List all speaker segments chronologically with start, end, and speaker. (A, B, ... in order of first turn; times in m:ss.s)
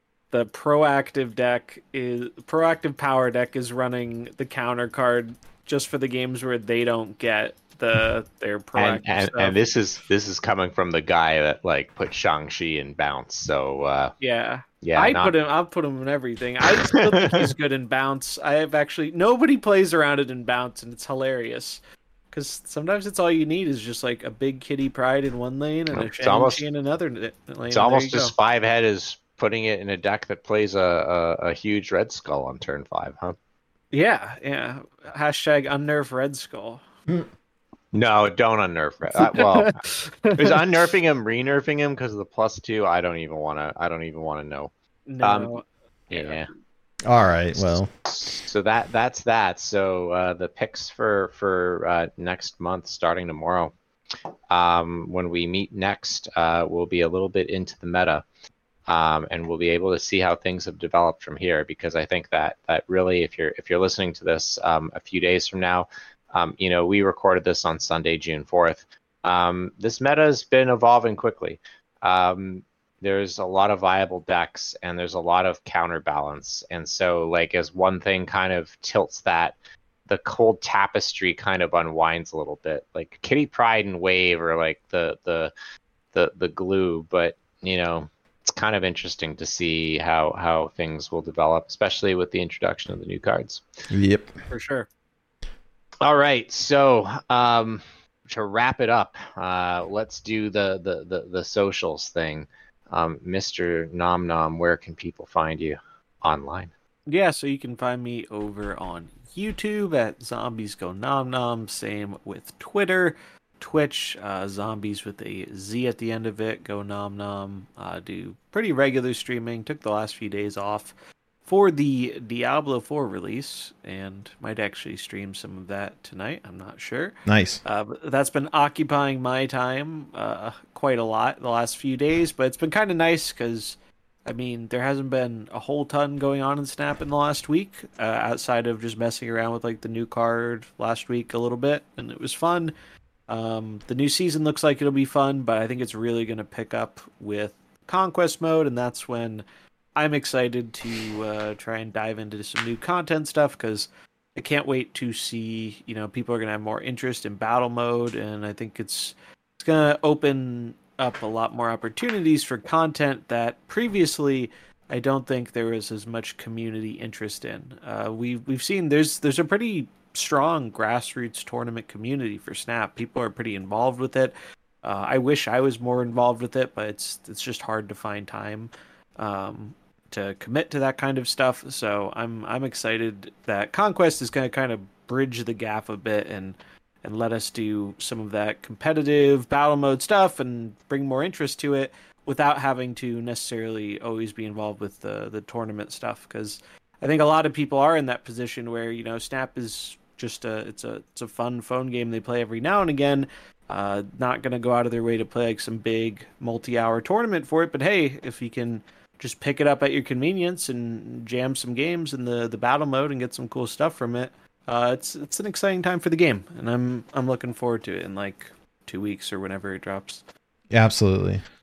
0:00.3-0:09.6 A
0:08.8-0:14.1 B
0:14.2-0:21.8 A
0:14.8-0:15.3 B
0:16.7-0:17.5 B
0:22.3-0:28.3 A
0:25.9-0:26.6 B
0:27.7-0:33.4 B
0:33.9-0:36.8 A
0:37.9-0:39.8 B
0:39.2-0:40.6 A
0:40.4-0:44.7 B
0:45.1-0:46.4 A
0:45.2-0:45.6 B
0:46.1-0:46.5 B
0:47.0-0:47.9 C
0:47.5-0:53.7 B
0:54.5-0:58.2 B
0:58.9-1:19.5 B
1:20.0-1:25.5 B
1:26.1-1:33.6 B
1:33.9-1:34.3 C
1:34.5-1:34.9 A
1:36.0-1:46.7 B
1:47.1-2:00.9 A
2:01.4-2:22.7 A
2:07.2-2:07.6 C
2:23.3-2:29.4 A
2:30.0-3:40.2 A
3:40.7-3:41.4 C